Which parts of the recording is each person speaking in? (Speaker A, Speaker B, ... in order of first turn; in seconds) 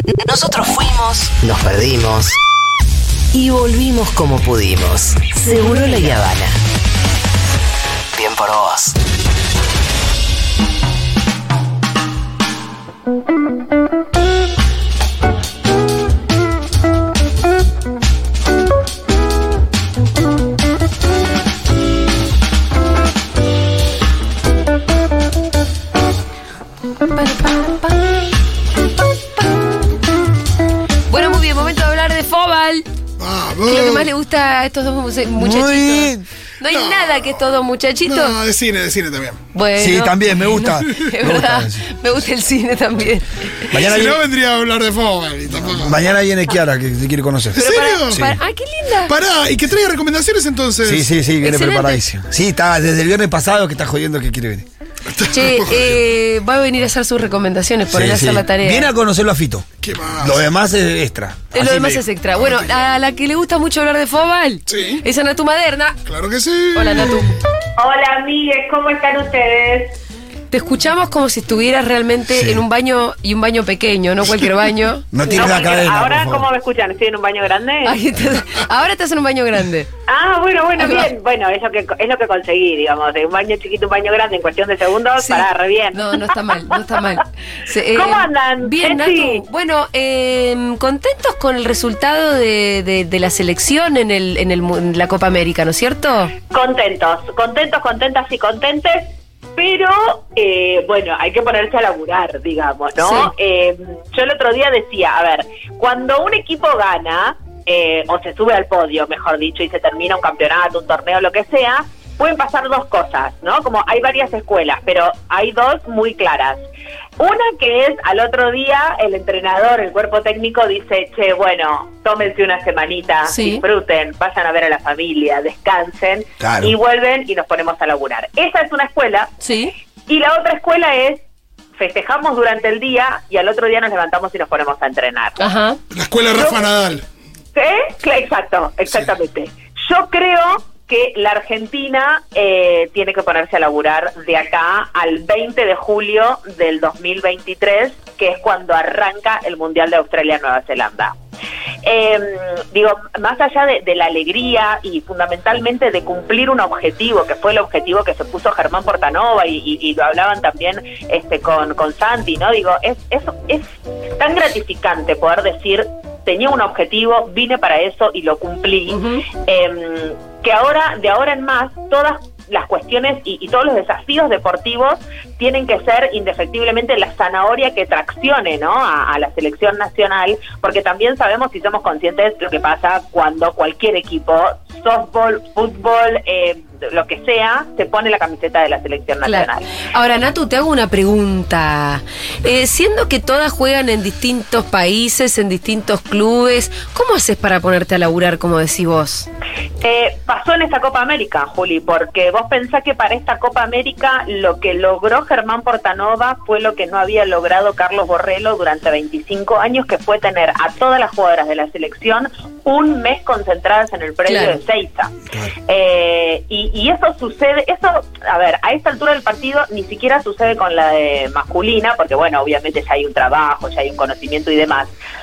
Speaker A: 0.2-2.3, 3.4-6.5, 8.2-8.9
Speaker B: 5.4-6.4, 27.1-28.0, 31.1-32.9, 33.7-38.4, 39.5-43.6, 47.5-49.1, 51.4-52.0, 55.3-58.9, 61.5-66.0, 66.8-67.3, 70.5-75.6, 77.8-79.9, 80.8-81.1, 85.2-96.3, 103.0-103.3, 123.3-123.6, 129.4-129.7, 135.4-135.8, 168.9-169.3, 189.2-199.3, 214.2-214.6
Speaker C: 33.2-34.1, 36.7-39.4, 43.7-46.0, 47.6-48.3, 49.1-51.1, 55.1-56.0, 59.8-60.4, 62.3-62.9, 64.7-65.0, 66.0-67.4, 135.9-137.1
Speaker D: 35.4-36.3, 39.8-41.9, 43.7-44.2, 45.6-48.4, 50.9-54.7, 57.9-59.7, 60.2-62.0, 72.3-72.7, 75.1-76.5, 126.4-126.7
Speaker E: 67.8-70.0, 75.2-78.0, 80.1-86.8, 87.9-89.4, 96.5-116.7, 117.2-129.4, 130.1-131.2, 131.8-135.4, 136.3-136.6, 137.6-151.2, 151.8-163.7, 164.2-189.7, 199.8-215.2, 215.7-224.9